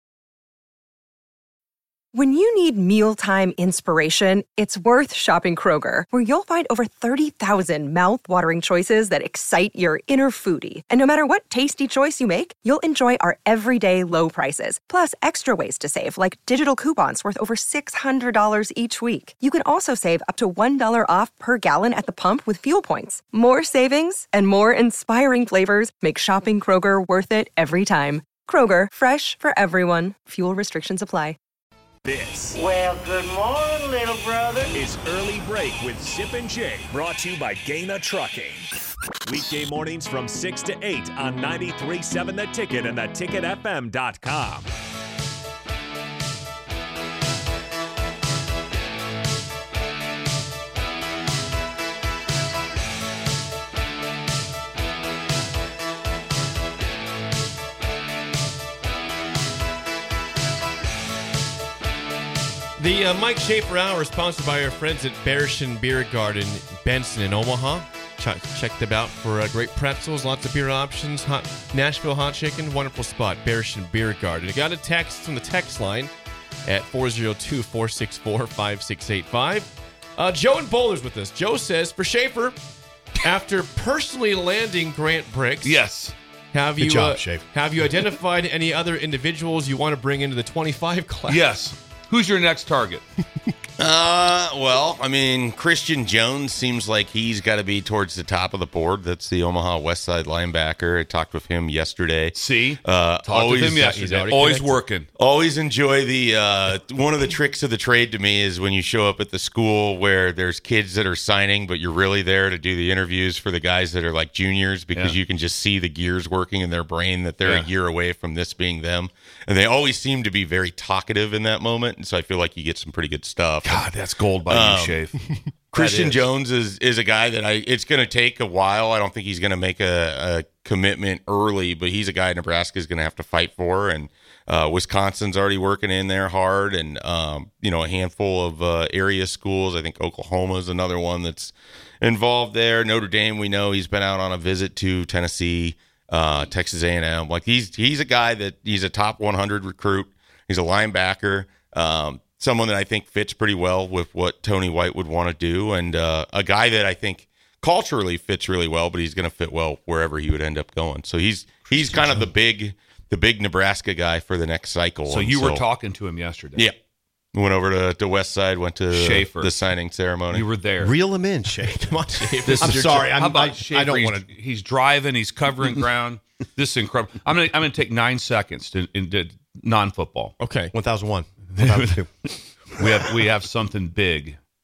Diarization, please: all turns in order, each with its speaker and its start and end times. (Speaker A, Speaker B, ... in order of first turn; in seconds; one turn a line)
Speaker A: 2.1-31.4
Speaker B: 32.0-33.1
Speaker C: 32.6-34.6
Speaker B: 34.4-38.6
Speaker B: 39.3-44.6
Speaker D: 62.8-76.1
Speaker D: 76.7-82.5
Speaker D: 83.2-85.8
Speaker E: 85.6-86.1
Speaker D: 86.5-91.5
Speaker F: 86.8-87.5
Speaker E: 91.3-93.0
Speaker G: 93.8-104.0
Speaker E: 102.3-105.1
Speaker D: 103.8-104.8
Speaker G: 105.2-123.9
Speaker E: 117.4-117.7
Speaker E: 123.6-125.2
Speaker G: 124.5-125.0
Speaker E: 125.7-126.3
Speaker G: 125.7-165.6
Speaker F: 161.7-162.3
Speaker E: 165.1-166.7
Speaker G: 167.3-170.4
Speaker E: 168.9-169.6
Speaker E: 170.3-170.9
Speaker F: 170.8-174.2
Speaker D: 171.6-173.2
Speaker E: 172.4-180.3
Speaker D: 180.4-180.7
Speaker F: 180.7-182.1
Speaker E: 181.5-182.0
Speaker E: 182.8-184.4